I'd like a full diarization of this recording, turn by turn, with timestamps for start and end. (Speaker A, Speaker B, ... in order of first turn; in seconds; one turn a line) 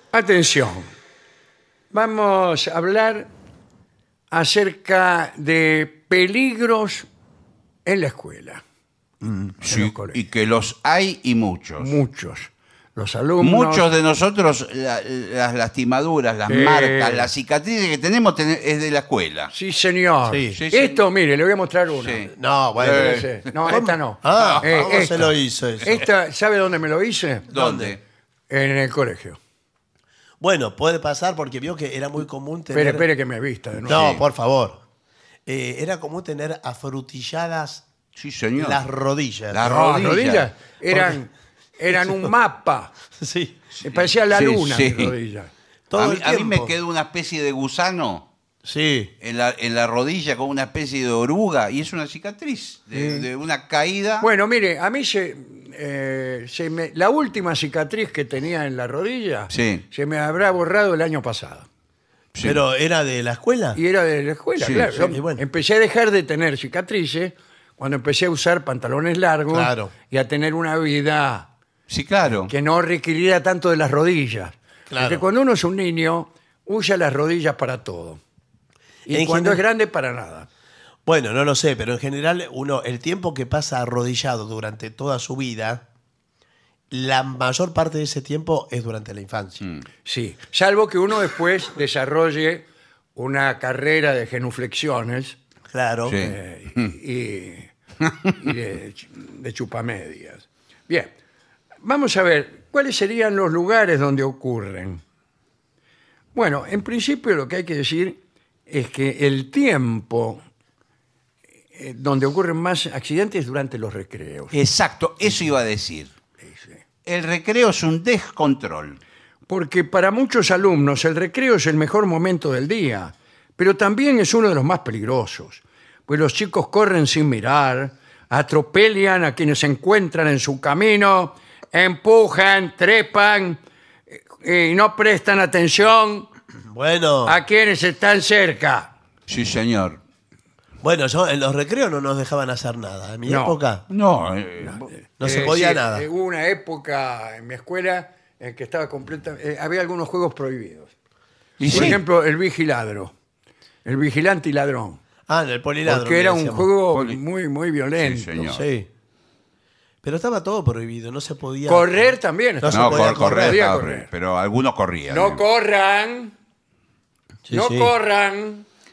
Speaker A: 0.1-0.9
Speaker A: 1.9-3.3
Speaker A: 4.3-7.1
Speaker A: 7.8-8.6
Speaker B: 9.2-9.5
Speaker C: 9.6-11.9
Speaker A: 9.6-10.2
Speaker A: 11.8-13.9
Speaker C: 13.4-19.5
Speaker A: 16.5-17.3
Speaker A: 19.5-27.6
Speaker B: 20.3-20.6
Speaker C: 20.5-21.0
Speaker C: 21.9-23.8
Speaker B: 22.3-26.0
Speaker C: 24.3-25.3
Speaker C: 27.5-28.0
Speaker B: 27.5-27.9
Speaker A: 28.5-29.4
Speaker B: 30.4-33.1
Speaker A: 32.7-34.1
Speaker C: 33.8-34.2
Speaker B: 33.9-34.8
Speaker B: 35.5-37.9
Speaker C: 38.1-38.8
Speaker B: 38.5-39.6
Speaker C: 39.5-40.5
Speaker A: 39.6-42.9
Speaker B: 40.9-41.2
Speaker B: 41.9-42.3
Speaker B: 43.2-43.6
Speaker A: 43.8-45.5
Speaker C: 43.8-45.1
Speaker B: 45.9-46.7
Speaker C: 45.9-48.3
Speaker B: 48.6-49.1
Speaker C: 49.2-54.3
Speaker A: 52.9-53.2
Speaker A: 54.2-61.7
Speaker C: 59.5-59.8
Speaker C: 62.3-62.6
Speaker B: 62.4-63.8
Speaker A: 63.8-71.5
Speaker C: 64.6-65.1
Speaker B: 64.7-65.4
Speaker B: 69.5-69.9
Speaker C: 71.9-72.5
Speaker A: 72.4-78.2
Speaker B: 74.9-75.2
Speaker B: 79.1-79.6
Speaker A: 79.1-80.5
Speaker B: 81.0-85.8
Speaker B: 86.9-89.6
Speaker A: 90.0-95.4
Speaker B: 95.7-96.2
Speaker C: 96.1-96.9
Speaker A: 96.2-97.7
Speaker A: 98.4-101.1
Speaker A: 101.8-105.0
Speaker A: 106.3-110.4
Speaker A: 111.7-114.5
Speaker C: 114.5-116.1
Speaker A: 116.4-116.8
Speaker C: 117.0-119.0
Speaker A: 119.5-136.3
Speaker B: 136.7-137.4
Speaker A: 137.2-138.9
Speaker C: 139.3-140.0
Speaker B: 140.8-143.8
Speaker A: 143.2-143.6
Speaker C: 143.9-145.5
Speaker A: 144.7-150.9
Speaker B: 145.2-146.1
Speaker C: 151.6-152.0
Speaker A: 151.6-153.1
Speaker B: 151.7-152.0
Speaker A: 153.8-155.0
Speaker B: 155.3-156.7
Speaker A: 155.8-158.4
Speaker C: 156.9-157.2
Speaker C: 158.0-158.7
Speaker B: 158.4-158.9
Speaker B: 160.0-163.6
Speaker A: 161.7-164.1
Speaker C: 162.7-165.4
Speaker A: 165.1-166.3
Speaker B: 167.5-167.9
Speaker A: 167.5-168.7